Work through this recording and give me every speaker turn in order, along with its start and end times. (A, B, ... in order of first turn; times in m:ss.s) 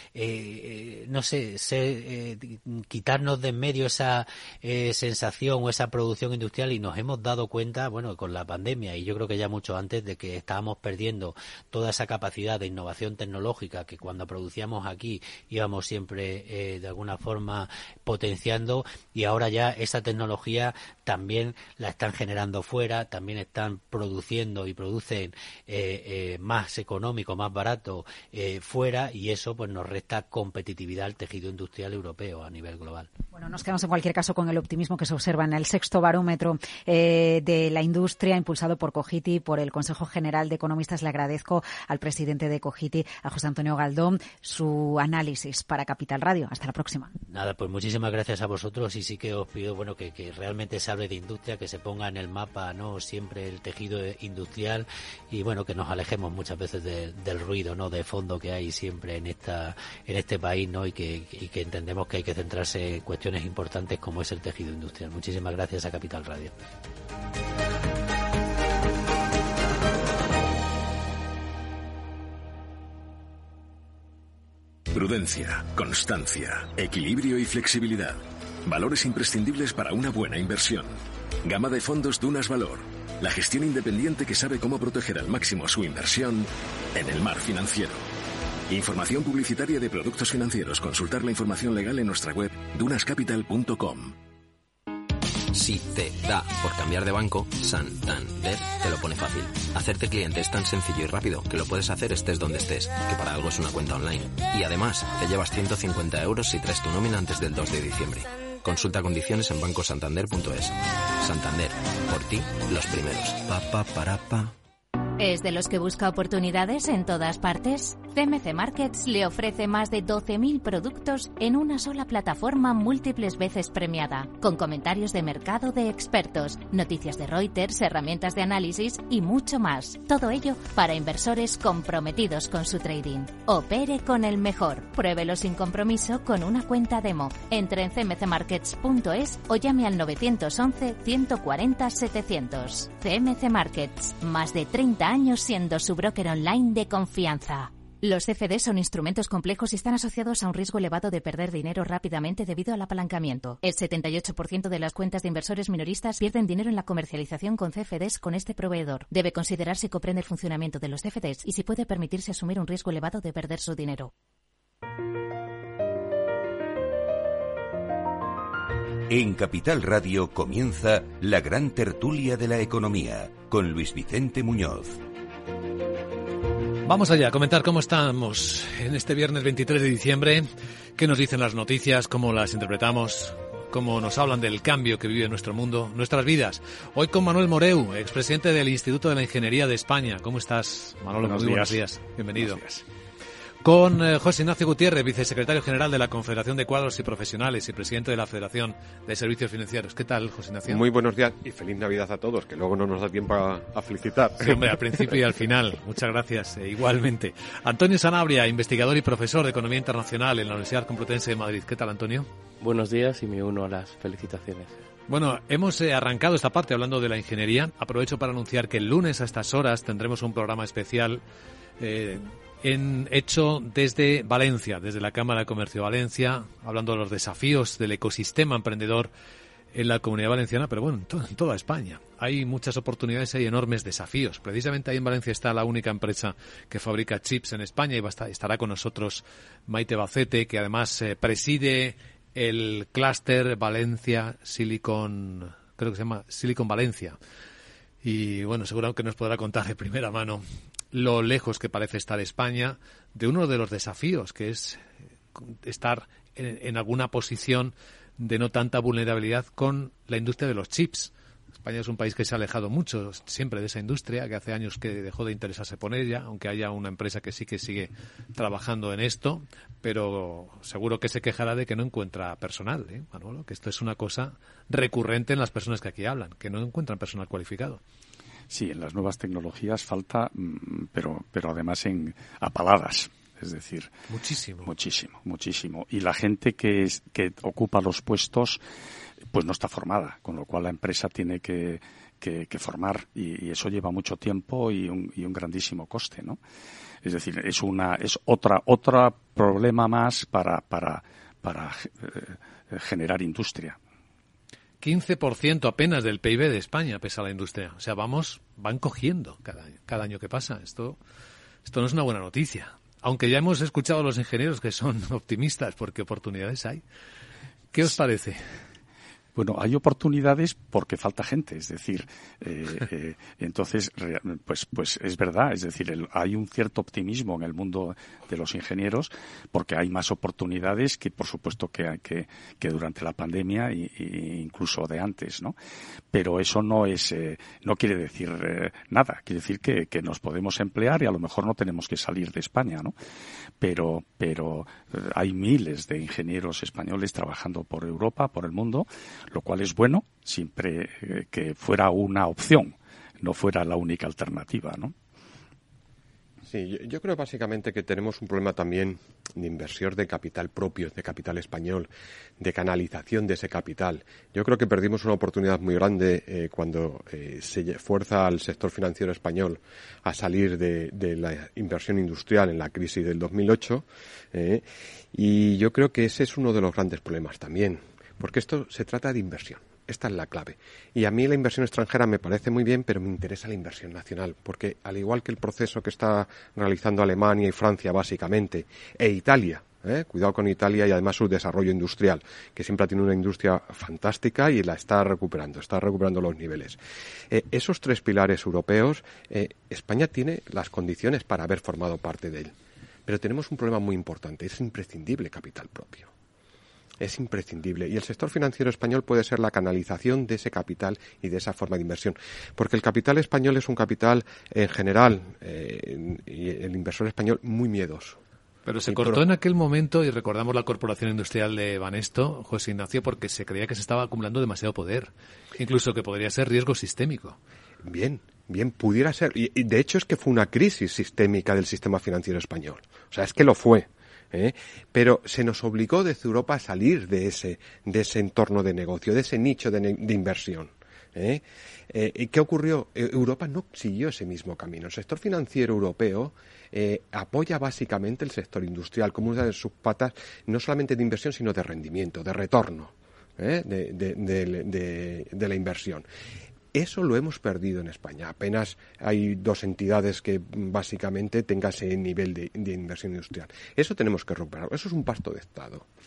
0:00.2-0:33.1 A
0:33.3-0:47.1 B
0:47.3-1:06.5 A
1:14.9-1:28.0 C
1:28.7-1:34.2 C
1:35.5-1:54.5 D
1:55.2-2:44.1 E
2:49.1-2:55.0 F
2:56.8-3:12.6 G
3:11.2-3:11.8 H
3:12.3-3:12.8 H
3:13.6-3:20.9 G
3:20.7-3:25.1 I
3:24.4-3:32.3 G
3:32.6-3:34.7 J
3:35.1-3:41.2 G
3:41.8-3:49.1 G
3:49.7-4:07.2 G
4:08.0-4:14.8 G
4:15.4-4:37.8 G
4:38.5-4:43.9 H
4:44.1-4:44.7 G
4:44.6-4:48.6 H
4:49.3-4:56.4 H
4:57.0-5:03.8 H
5:04.8-5:11.0 G
5:11.6-5:16.8 G
5:17.7-5:18.4 G
5:19.4-5:35.6 H
5:36.1-5:42.9 H
5:43.6-5:54.9 H
5:56.5-6:01.9 I
6:02.4-6:36.8 I
6:37.3-6:42.5 I
6:43.1-6:46.1 I
6:47.0-6:58.2 I
6:58.7-7:07.4 G
6:58.9-6:59.2 I
7:07.8-7:36.0 I
7:36.7-7:45.9 I